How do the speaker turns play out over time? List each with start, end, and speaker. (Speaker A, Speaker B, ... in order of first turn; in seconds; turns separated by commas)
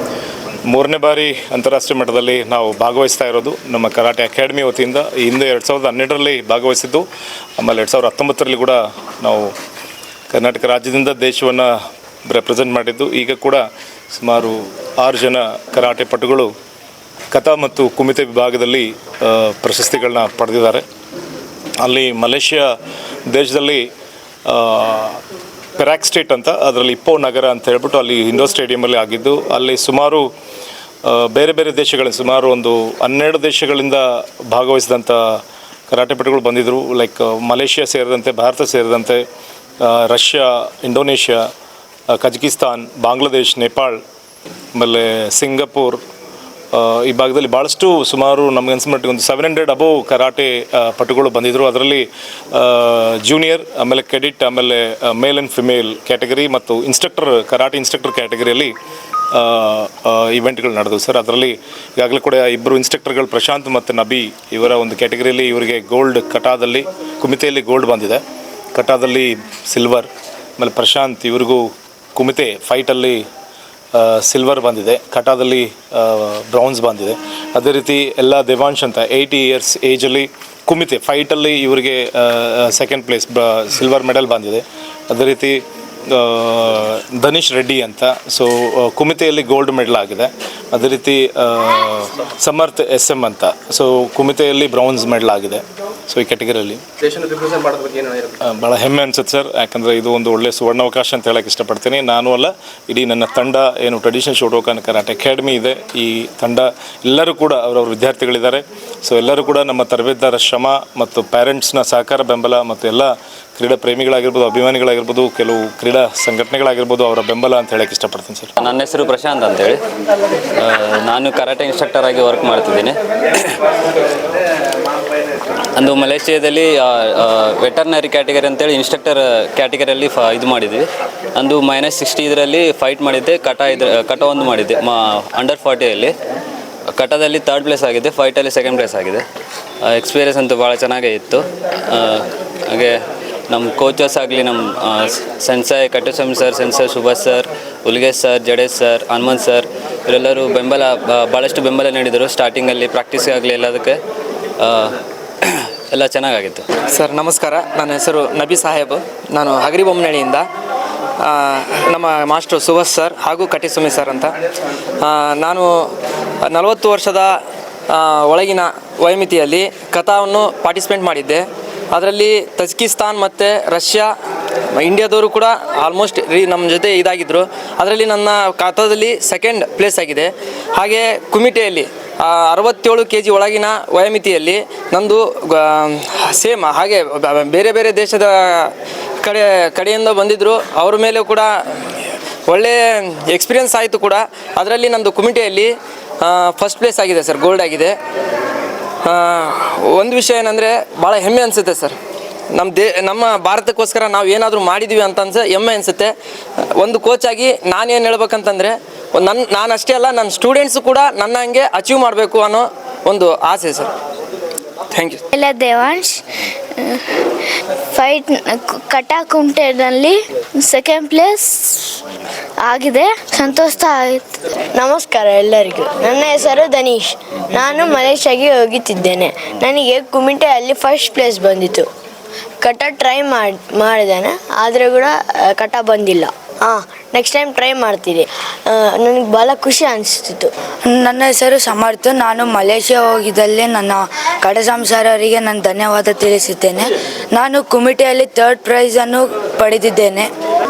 Speaker A: 0.7-7.0, Speaker A: 7.6-9.5, Speaker A: 10.3-11.7, Speaker A: 12.3-13.6, Speaker A: 14.1-16.5, Speaker A: 17.3-20.8, Speaker A: 21.8-22.7, Speaker A: 23.3-23.9, Speaker A: 24.4-25.2, Speaker A: 25.8-30.3, Speaker A: 31.0-35.4, Speaker A: 35.9-39.2, Speaker A: 39.8-41.5, Speaker A: 42.1-44.0, Speaker A: 44.7-46.0, Speaker A: 46.7-58.7, Speaker A: 59.3-68.2, Speaker A: 68.7-73.2, Speaker A: 73.9-96.8, Speaker A: 98.4-118.5, Speaker B: 118.6-119.8, Speaker B: 120.5-123.6, Speaker B: 125.7-136.1, Speaker B: 136.9-139.2, Speaker B: 139.8-143.0, Speaker B: 143.5-154.0, Speaker B: 154.6-156.7, Speaker C: 157.0-157.7, Speaker D: 157.7-160.4, Speaker C: 161.3-162.2, Speaker D: 161.9-164.2, Speaker C: 162.8-163.1, Speaker D: 166.5-167.2, Speaker D: 168.1-174.1, Speaker D: 174.8-188.7, Speaker D: 189.2-191.4, Speaker D: 192.5-195.7, Speaker D: 196.2-197.9, Speaker D: 199.1-201.9, Speaker D: 202.5-206.1, Speaker D: 206.8-213.9, Speaker D: 214.9-215.2, Speaker C: 215.3-216.2, Speaker C: 216.8-222.0, Speaker C: 222.6-224.4, Speaker E: 224.7-231.9, Speaker E: 232.6-240.5, Speaker F: 240.8-250.3